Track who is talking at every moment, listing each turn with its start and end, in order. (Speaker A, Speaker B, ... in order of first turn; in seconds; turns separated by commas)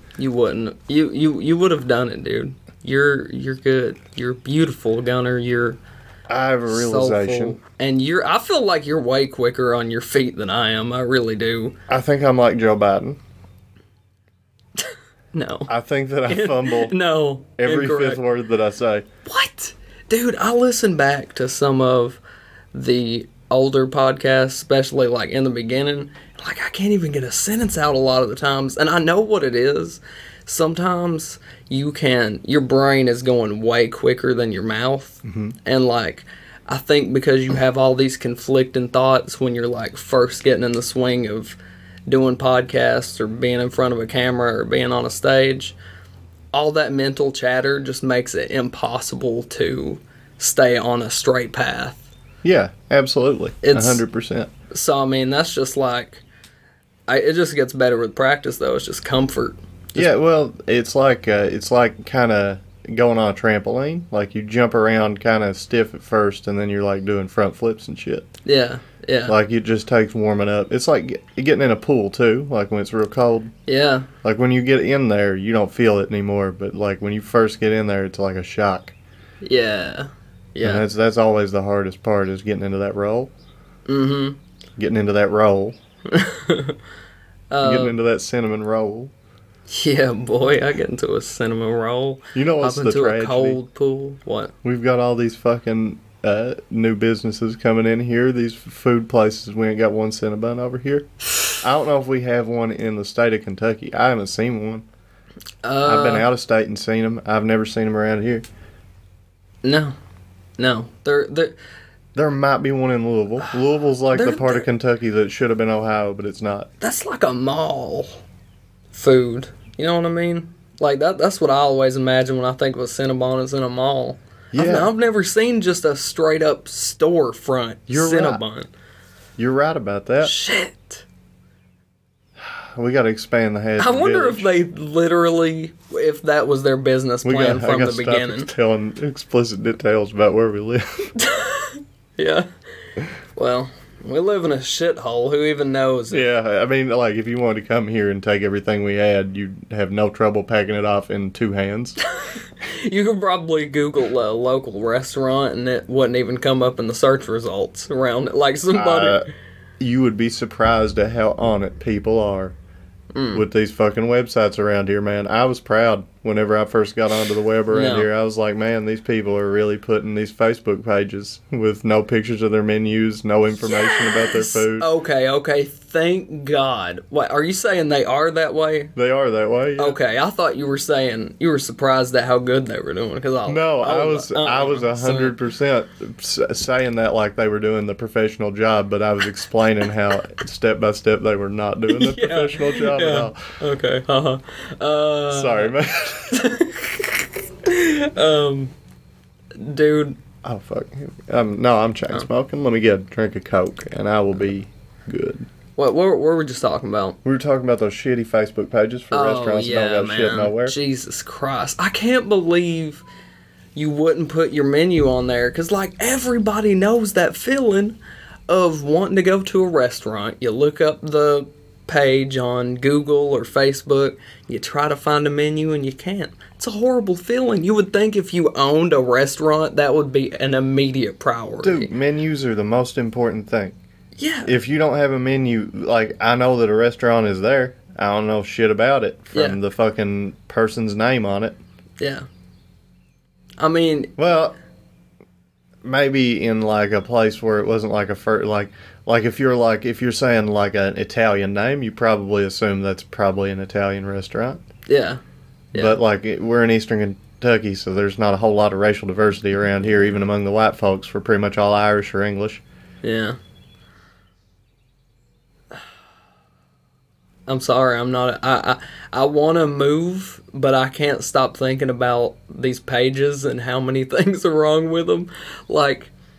Speaker A: 0.2-5.8, Speaker B: 6.3-7.6, Speaker A: 6.7-11.8, Speaker B: 11.9-13.2, Speaker A: 14.8-15.7, Speaker B: 15.7-16.9, Speaker A: 16.3-18.2, Speaker B: 17.6-19.1, Speaker A: 19.2-22.2, Speaker A: 22.7-45.7, Speaker B: 35.2-35.5, Speaker A: 46.5-52.0, Speaker B: 52.4-54.5, Speaker A: 53.6-54.0, Speaker A: 54.7-56.2, Speaker A: 57.1-60.0, Speaker B: 59.9-68.3, Speaker A: 68.4-69.3, Speaker B: 69.3-73.5, Speaker A: 73.7-74.1, Speaker B: 74.2-78.9, Speaker A: 79.4-80.8, Speaker B: 80.6-83.3, Speaker A: 83.9-84.4, Speaker B: 84.8-85.8, Speaker A: 86.1-86.8, Speaker A: 87.5-87.9, Speaker B: 87.6-89.1, Speaker A: 89.7-94.5, Speaker B: 92.3-93.6, Speaker B: 94.6-101.1, Speaker B: 101.6-104.8, Speaker A: 105.6-106.3, Speaker B: 105.8-108.4, Speaker A: 109.6-110.0, Speaker A: 110.6-111.5, Speaker B: 112.1-116.7, Speaker A: 114.1-114.7, Speaker A: 116.8-118.2, Speaker A: 118.9-128.7, Speaker B: 124.5-124.9, Speaker B: 127.9-128.4, Speaker B: 129.4-130.3, Speaker A: 130.2-131.0, Speaker B: 132.4-134.5, Speaker A: 133.8-138.5, Speaker B: 137.2-141.1, Speaker A: 141.2-142.5, Speaker A: 143.3-146.2, Speaker B: 146.1-152.0, Speaker A: 152.2-159.2, Speaker B: 158.7-159.3, Speaker B: 159.8-162.5, Speaker A: 163.1-163.4, Speaker B: 163.3-174.9, Speaker A: 167.7-168.1, Speaker A: 173.7-178.9, Speaker B: 178.9-180.0, Speaker A: 179.8-185.3, Speaker B: 183.4-193.5, Speaker A: 191.9-195.7, Speaker B: 195.3-196.4, Speaker A: 196.3-198.7, Speaker A: 199.6-200.2, Speaker B: 200.4-205.5, Speaker A: 205.8-207.2, Speaker B: 207.2-210.8, Speaker A: 209.1-213.0, Speaker A: 213.7-218.0, Speaker A: 218.5-231.9, Speaker B: 231.6-233.8, Speaker A: 234.2-234.5, Speaker B: 234.4-241.6, Speaker A: 239.3-239.6, Speaker A: 242.0-242.3, Speaker A: 243.6-244.1, Speaker B: 244.2-244.6, Speaker B: 245.8-254.6, Speaker A: 254.9-255.2, Speaker A: 255.7-256.0, Speaker B: 255.7-262.6, Speaker A: 263.0-263.4, Speaker A: 267.5-276.1